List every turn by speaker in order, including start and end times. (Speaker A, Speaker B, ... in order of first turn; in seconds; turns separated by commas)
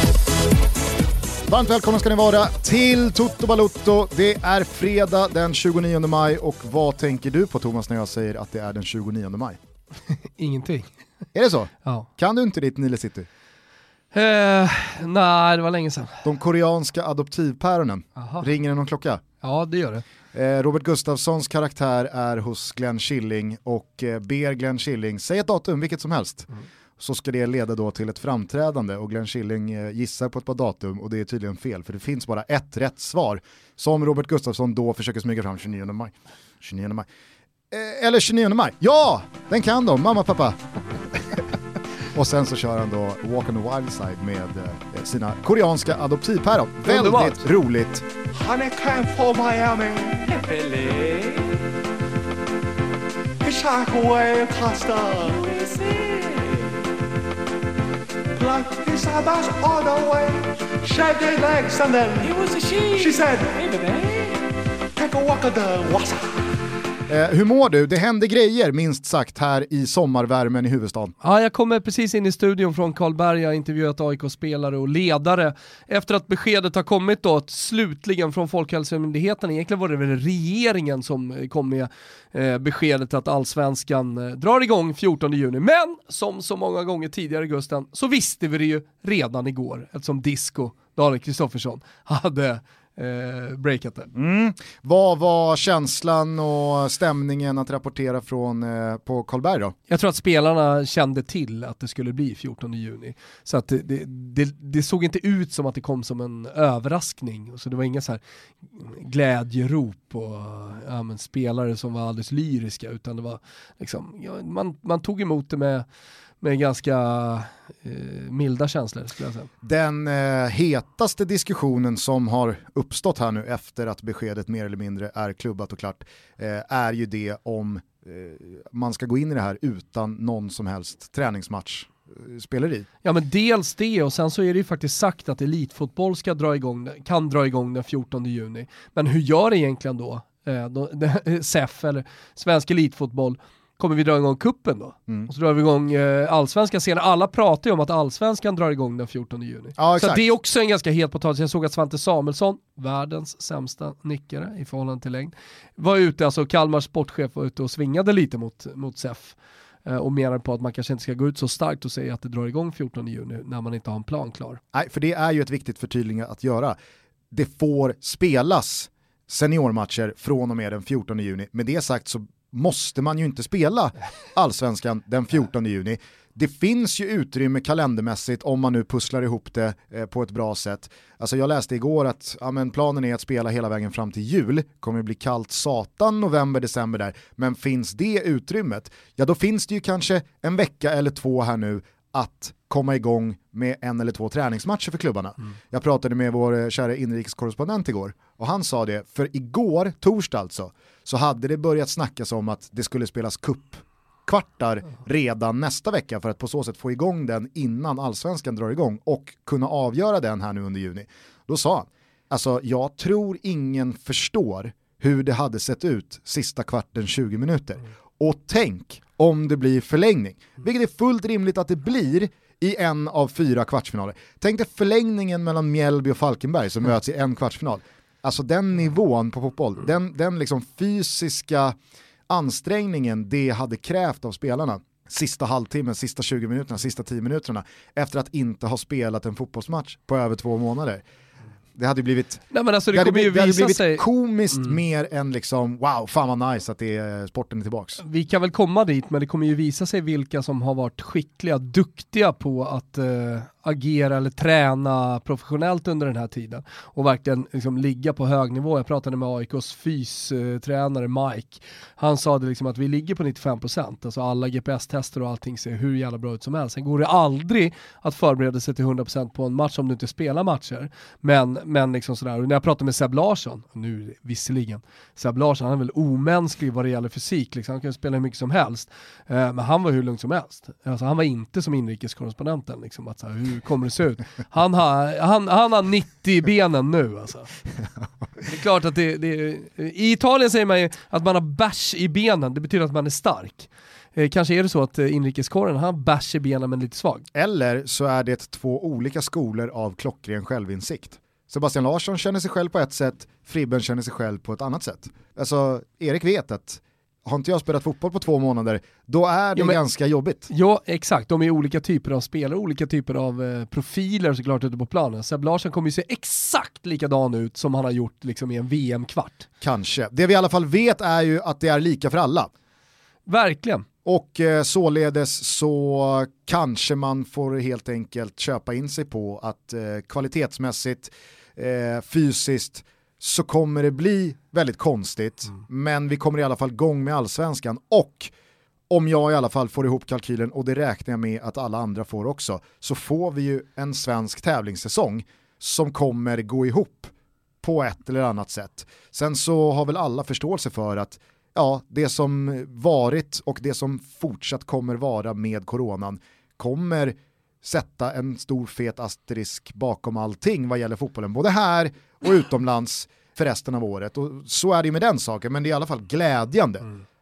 Speaker A: 1.5-9.6, Speaker B: 10.4-10.9, Speaker A: 11.3-13.3, Speaker B: 14.1-16.2, Speaker A: 16.2-19.2, Speaker B: 18.2-18.5, Speaker B: 19.4-20.0, Speaker A: 20.3-37.1, Speaker A: 37.7-40.6, Speaker A: 41.1-41.5, Speaker A: 42.1-48.0, Speaker B: 46.8-47.4, Speaker C: 48.3-51.6, Speaker C: 53.4-56.8, Speaker C: 58.3-64.4, Speaker C: 65.0-66.2, Speaker A: 67.1-71.1, Speaker B: 71.2-94.1, Speaker A: 94.1-99.7, Speaker B: 99.9-108.2, Speaker B: 108.7-115.8, Speaker B: 116.4-119.5, Speaker A: 119.6-132.9, Speaker B: 133.0-164.6, Speaker A: 149.8-150.2, Speaker A: 164.7-166.8, Speaker A: 167.3-231.8, Speaker A: 232.3-241.0, Speaker A: 241.7-248.0, Speaker B: 242.5-244.0, Speaker B: 248.0-287.5, Speaker B: 288.4-297.2, Speaker A: 297.3-310.5, Speaker B: 310.5-319.4, Speaker A: 319.6-322.5, Speaker B: 323.3-323.9, Speaker A: 324.0-338.3, Speaker A: 338.9-366.9